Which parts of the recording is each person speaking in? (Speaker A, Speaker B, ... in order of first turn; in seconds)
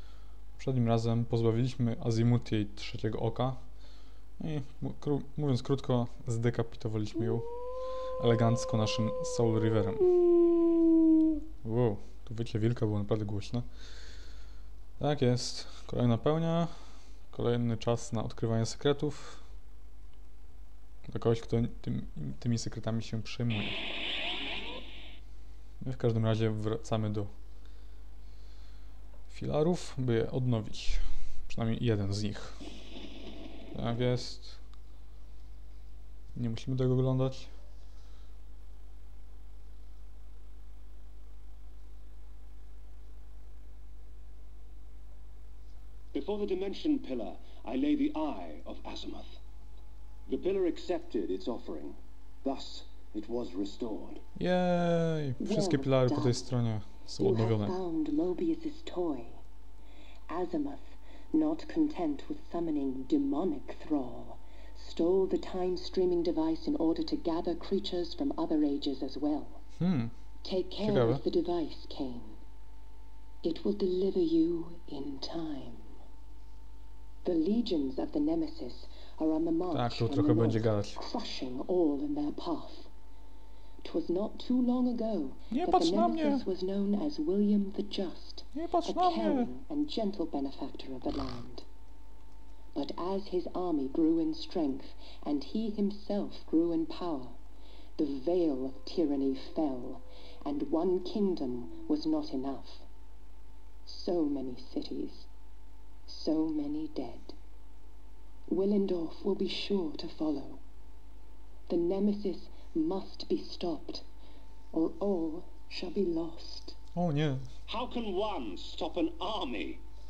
Speaker A: 0.6-3.6, 4.4-7.5, 8.2-10.1, 11.6-13.7, 15.0-16.7, 17.3-19.4, 21.1-23.8, 25.8-27.3, 29.3-32.6, 33.7-34.6, 36.3-37.5, 54.4-57.8, 69.8-70.1, 70.8-71.2, 79.7-81.0, 85.5-86.4, 88.5-89.5, 117.0-117.4
Speaker B: 46.1-49.4, 50.3-54.2, 117.7-119.8
Speaker C: 55.4-56.5, 57.2-59.4, 60.3-69.6, 70.4-72.4, 73.4-75.9, 77.2-82.9, 83.8-91.7, 92.8-97.4, 98.0-102.9, 103.9-105.3, 106.1-107.4, 108.5-110.6, 111.7-114.1, 114.7-116.8